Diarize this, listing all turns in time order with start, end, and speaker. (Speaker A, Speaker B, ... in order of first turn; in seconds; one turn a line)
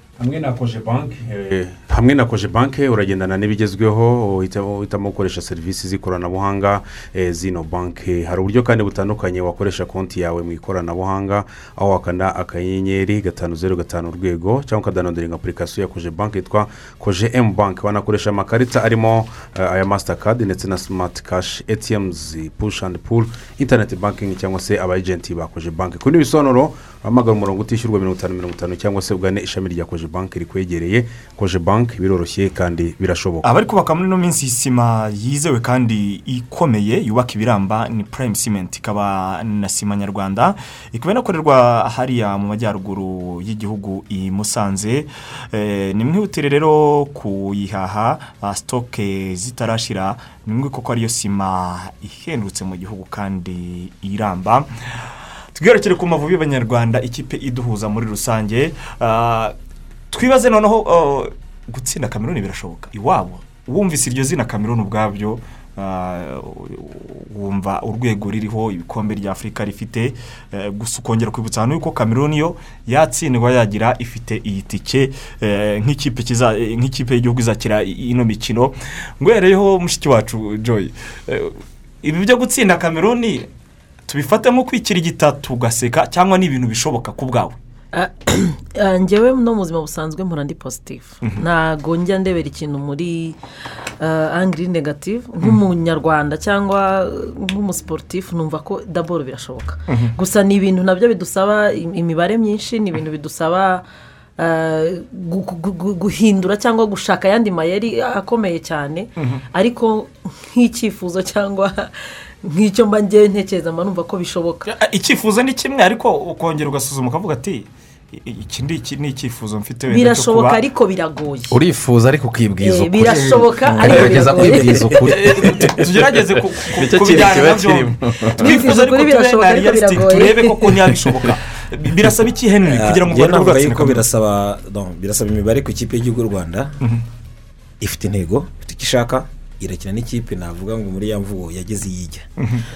Speaker A: 0.2-33.5
Speaker B: 33.4-59.5
Speaker B: 60.1-83.5
Speaker B: 84.1-87.6
Speaker C: 87.9-93.4
Speaker C: 94.0-103.8
Speaker C: 104.4-114.7
Speaker B: 114.7-120.6
Speaker C: 119.9-121.5
Speaker D: 121.5-128.5
Speaker C: 122.6-125.1
Speaker E: 123.6-124.9
Speaker B: 125.0-134.1
Speaker C: 128.3-130.8
Speaker E: 132.6-136.8
Speaker E: 137.8-142.2